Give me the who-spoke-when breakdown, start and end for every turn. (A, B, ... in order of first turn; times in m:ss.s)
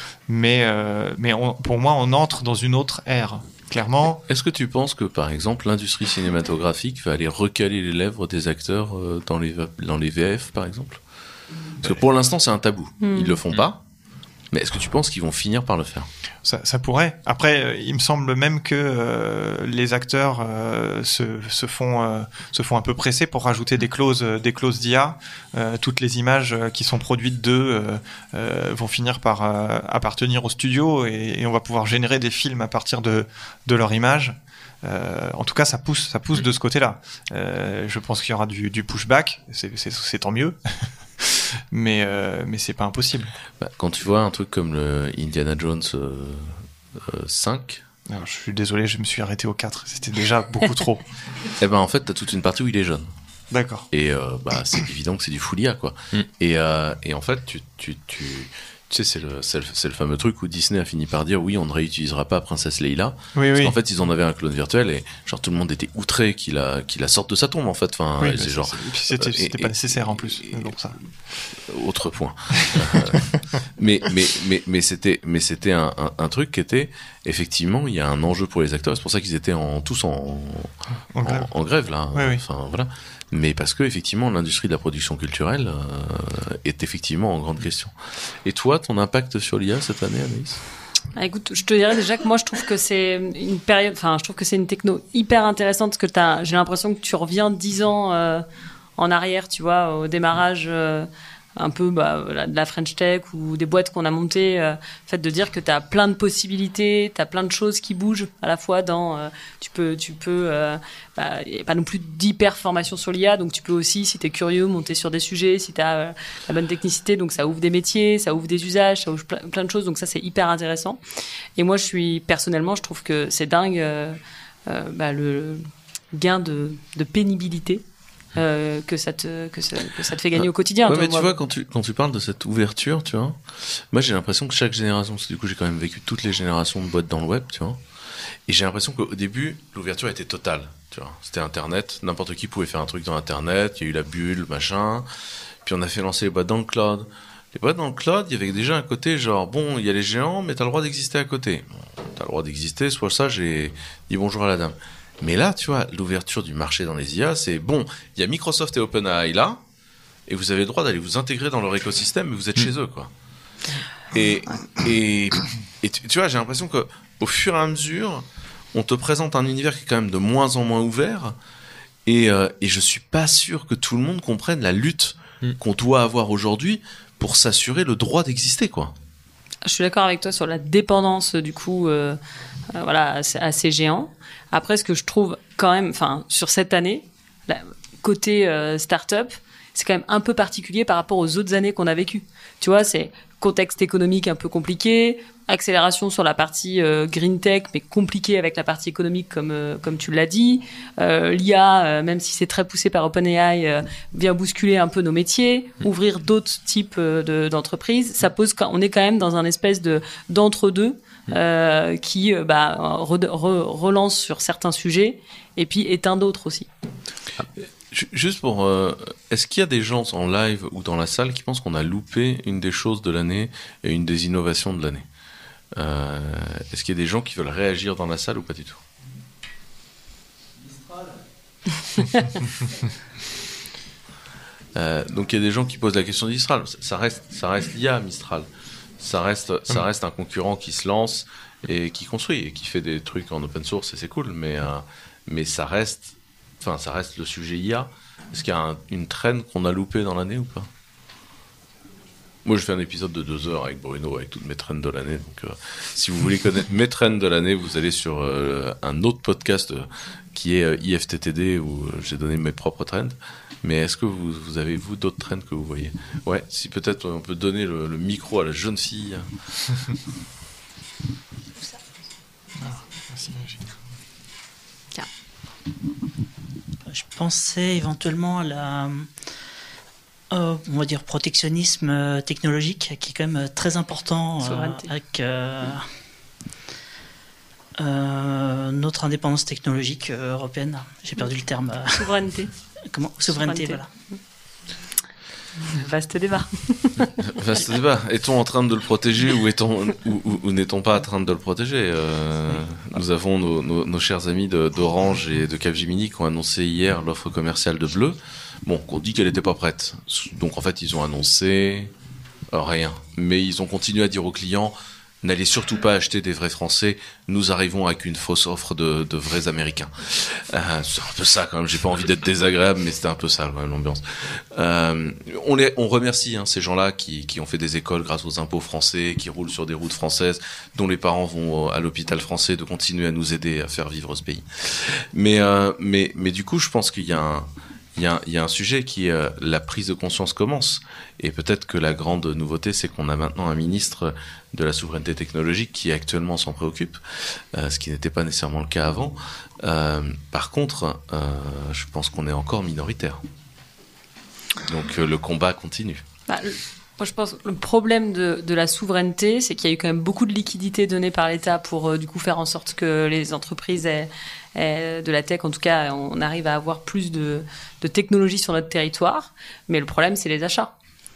0:00.3-0:04.2 A
0:04.3-0:11.0 B
0:11.8-0:13.8 B
0:13.0-0:13.4 C
0:14.5-0:16.1 B
0:16.4-0:40.6 A
0:41.2-0:43.3 A
0:43.6-0:47.8 B
0:48.1-0:51.0 A
0:51.6-0:53.1 B
0:53.5-0:53.9 A
0:53.9-1:10.9 B
1:03.4-1:03.8 A
1:08.2-1:11.0 A
1:11.6-1:30.6 B
1:12.6-1:13.2 A
1:21.2-1:21.5 A
1:22.1-1:22.4 A
1:31.2-1:38.4 C
1:39.0-2:01.0 C
2:01.6-2:11.3 C
2:10.4-2:17.8 B
2:18.5-2:25.1 B
2:25.6-2:39.6 B
2:40.3-2:43.1 B
2:44.1-2:51.4 B
2:52.1-2:58.9 B
2:59.6-3:02.2 C
3:02.7-3:36.7 C
3:37.9-3:45.1 B
3:45.8-3:48.8 B
3:51.9-3:52.3 C
3:54.8-3:58.5 B
3:59.0-4:10.7 B
4:12.4-4:29.3 B
4:32.6-4:33.7 A
4:36.9-4:39.1 D
4:40.3-4:45.9 D
4:44.4-4:44.9 C
4:47.8-4:52.2 D
4:51.9-4:52.5 C
4:52.9-4:53.9 D
4:53.3-4:54.2 C
4:55.6-4:57.1 C
4:57.2-5:11.9 B
5:12.5-5:53.2 B
5:54.6-5:56.0 B
5:56.3-6:10.7 C